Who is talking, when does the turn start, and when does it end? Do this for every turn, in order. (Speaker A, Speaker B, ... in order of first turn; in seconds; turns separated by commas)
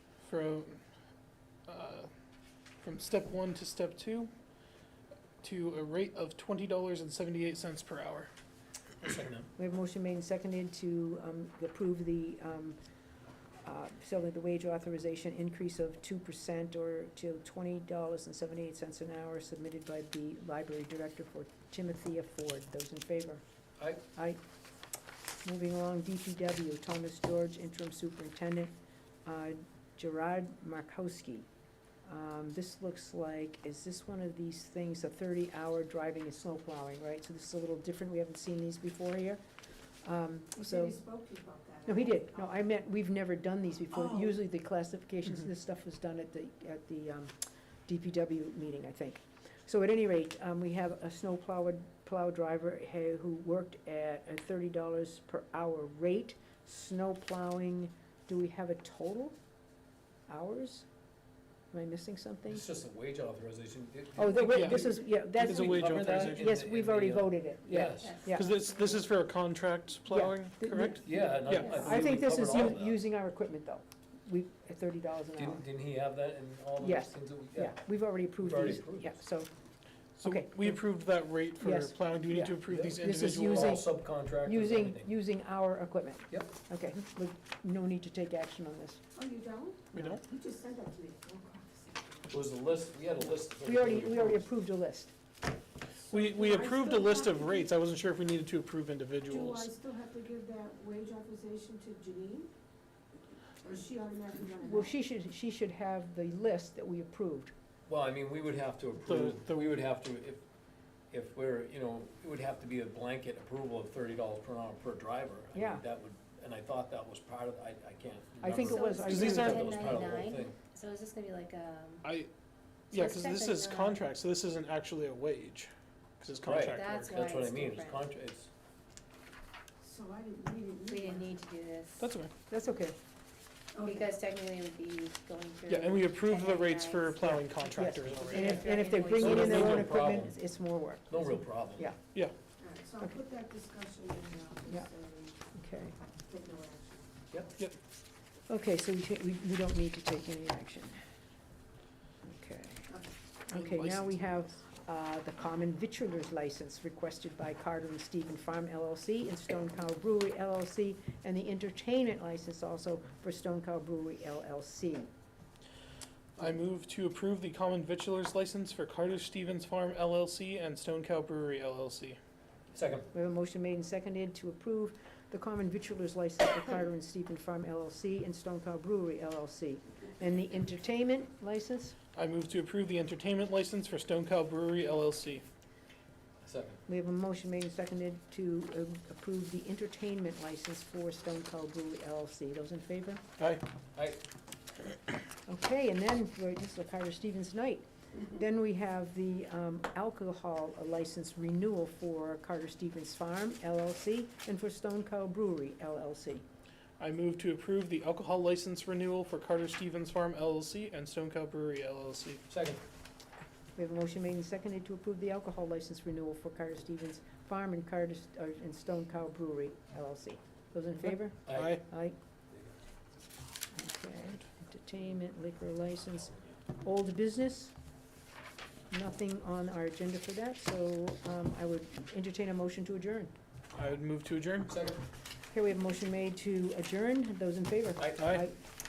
Speaker A: 0.2-0.8, Speaker A: 1.7-2.1, Speaker A: 2.8-4.3, Speaker A: 5.4-8.3, Speaker B: 9.0-9.5, Speaker C: 9.6-12.8, Speaker C: 13.6-23.4, Speaker C: 24.1-24.4, Speaker C: 25.4-28.7, Speaker C: 29.2-31.5, Speaker C: 32.0-39.4, Speaker C: 40.0-41.0, Speaker D: 40.6-42.4, Speaker C: 41.9-47.3, Speaker D: 43.9-44.4, Speaker C: 47.9-59.4, Speaker C: 60.3-60.9, Speaker C: 61.7-62.6, Speaker B: 62.5-68.3, Speaker C: 64.2-68.5, Speaker A: 64.3-66.5, Speaker E: 68.0-68.4, Speaker A: 68.3-72.1, Speaker C: 70.1-75.6, Speaker B: 71.0-73.0, Speaker B: 75.4-79.2, Speaker C: 76.8-79.5, Speaker A: 80.2-83.8, Speaker C: 80.2-80.8, Speaker C: 81.6-89.0, Speaker B: 82.7-85.1, Speaker D: 89.2-92.2, Speaker A: 89.9-90.2, Speaker B: 92.3-94.5, Speaker C: 93.7-95.1, Speaker D: 96.1-97.7, Speaker A: 96.1-99.7, Speaker D: 99.3-102.5, Speaker D: 103.6-104.9, Speaker C: 104.6-107.5, Speaker B: 107.9-110.4, Speaker A: 109.1-109.5, Speaker B: 111.1-120.6, Speaker C: 115.5-115.8, Speaker C: 118.4-119.9, Speaker E: 118.5-122.1, Speaker A: 119.1-119.5, Speaker A: 122.0-122.3, Speaker E: 122.9-124.0, Speaker A: 122.9-127.1, Speaker B: 126.4-128.5, Speaker E: 126.8-128.1, Speaker D: 129.8-131.3, Speaker E: 130.9-132.1, Speaker A: 132.0-132.3, Speaker C: 132.5-132.9, Speaker D: 133.7-134.1, Speaker E: 133.8-139.8, Speaker A: 135.7-138.6, Speaker C: 137.6-142.0, Speaker B: 138.6-140.4, Speaker A: 139.5-139.9, Speaker B: 141.1-141.9, Speaker D: 142.6-145.4, Speaker C: 145.5-146.0, Speaker D: 146.3-147.1, Speaker C: 148.5-151.0, Speaker C: 152.2-152.9, Speaker C: 153.5-165.1, Speaker A: 153.5-154.1, Speaker A: 166.4-172.2, Speaker B: 172.7-173.1, Speaker C: 173.1-181.9, Speaker A: 182.2-185.4, Speaker B: 186.4-186.8, Speaker C: 186.9-193.2, Speaker B: 193.9-194.2, Speaker C: 195.5-206.4, Speaker A: 207.0-212.4, Speaker B: 212.5-212.8, Speaker C: 213.8-222.2, Speaker B: 221.5-221.8, Speaker C: 223.7-227.8, Speaker C: 228.9-233.3, Speaker A: 233.7-234.7, Speaker B: 234.7-235.0, Speaker C: 235.5-238.6, Speaker B: 238.0-238.2, Speaker A: 238.2-238.5